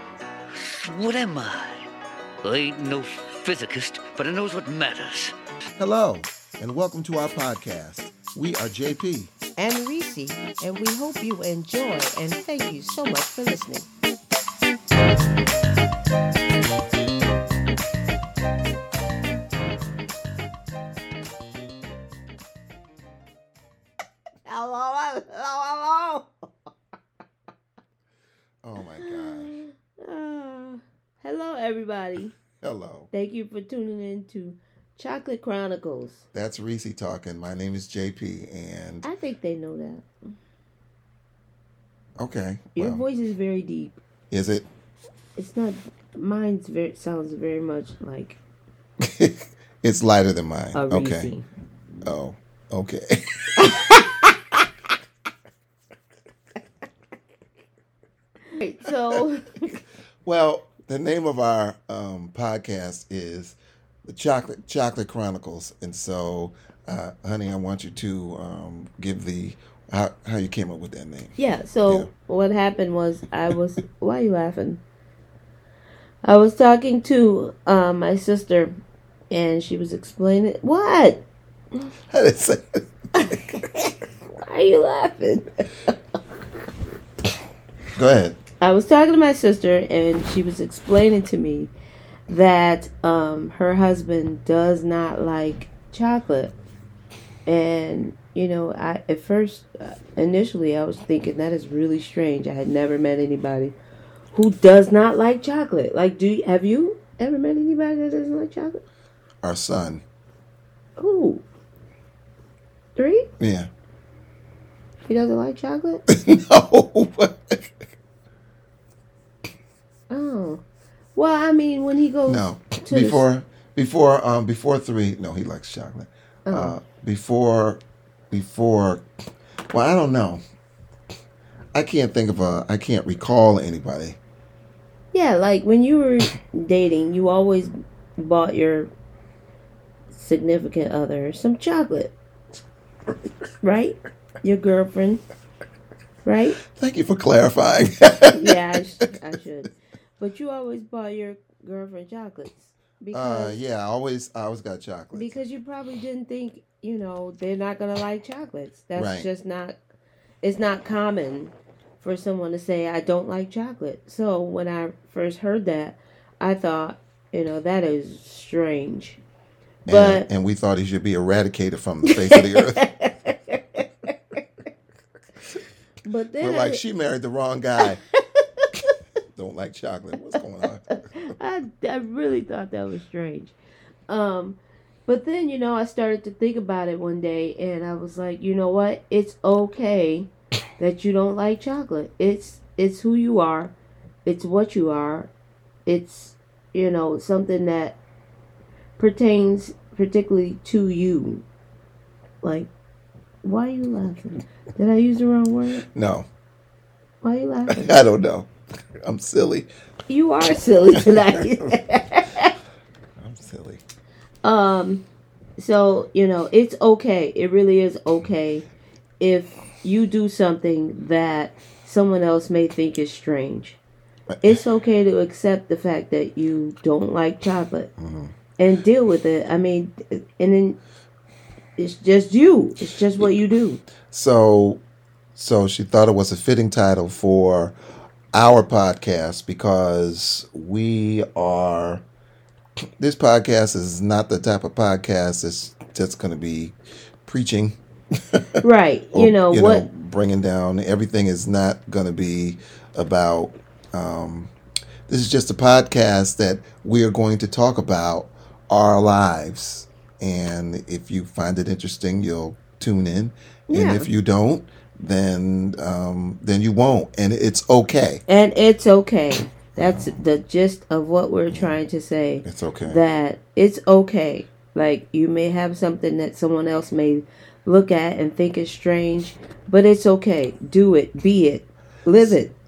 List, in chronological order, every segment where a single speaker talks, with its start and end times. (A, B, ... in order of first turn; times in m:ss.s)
0:00.6-0:01.8 A
0:02.4-0:05.3 A
0:05.8-0:09.3 B
0:09.6-0:13.9 C
0:24.4-0:26.3 C
0:28.6-0:29.5 B
0:29.0-0:32.3 C
0:32.6-0:33.1 B
0:33.1-0:36.2 C
0:36.3-0:39.1 B
0:39.0-0:40.1 C
0:42.2-0:43.0 B
0:42.8-0:44.0 C
0:44.3-0:44.7 B
0:45.4-0:48.4 C
0:49.0-0:51.3 B
0:50.7-0:51.5 C
0:52.0-0:53.4 B
0:53.6-0:54.6 C
0:58.5-0:59.8 C
1:00.2-1:12.1 B
1:11.4-1:14.8 C
1:16.2-1:18.7 C
1:19.3-1:21.2 C
1:22.1-1:23.4 B
1:23.2-1:23.9 C
1:24.4-1:25.9 C
1:28.0-1:28.4 B
1:28.6-1:31.7 C
1:32.3-1:36.5 C
1:37.4-1:43.7 C
1:44.3-1:48.8 C
1:49.4-1:50.0 B
1:51.0-1:51.4 C
1:53.0-1:53.3 C
1:53.4-1:53.7 B
1:55.1-1:56.0 C
1:56.1-1:57.6 B
2:00.1-2:00.6 C
2:01.1-2:03.2 C
2:02.3-2:09.0 B
2:06.4-2:06.8 C
2:09.7-2:10.4 B
2:11.7-2:14.2 B
2:15.1-2:18.9 C
2:20.1-2:22.1 C
2:23.6-2:25.2 C
2:26.2-2:26.6 C
2:26.7-2:28.6 B
2:28.3-2:33.6 C
2:33.1-2:35.4 B
2:35.1-2:39.8 C
2:38.9-2:39.3 B
2:40.4-2:49.2 C
2:49.9-2:50.3 C
2:49.9-2:52.8 B
2:52.1-2:54.1 C
2:56.0-2:56.8 C
2:56.4-2:58.0 B
2:57.8-2:58.8 C
2:59.3-3:00.8 B
3:01.1-3:03.5 C
3:04.1-3:13.7 C
3:14.2-3:15.3 C
3:15.8-3:18.0 C
3:19.0-3:21.4 C
3:22.4-3:22.7 C
3:23.4-3:25.8 C
3:25.9-3:26.2 B
3:27.2-3:28.0 C
3:27.7-3:28.5 B
3:29.0-3:29.7 B
3:30.1-3:32.5 C
3:31.0-3:31.3 B
3:33.2-3:33.8 B
3:34.4-3:35.0 C
3:35.6-3:38.6 C
3:39.2-3:43.8 C
3:44.3-3:44.6 B
3:44.4-3:47.9 C
3:48.0-3:48.3 B
3:48.6-3:50.8 C
3:51.8-3:53.8 C
3:54.1-3:54.8 B
3:55.3-3:57.7 B
3:58.3-4:02.0 B
4:03.0-4:07.8 B
4:08.6-4:09.8 C
4:09.1-4:14.5 B
4:15.1-4:28.2 B
4:23.7-4:24.1 C
4:28.3-4:42.5 C
4:29.8-4:30.2 B
4:31.5-4:31.8 B
4:32.4-4:33.0 B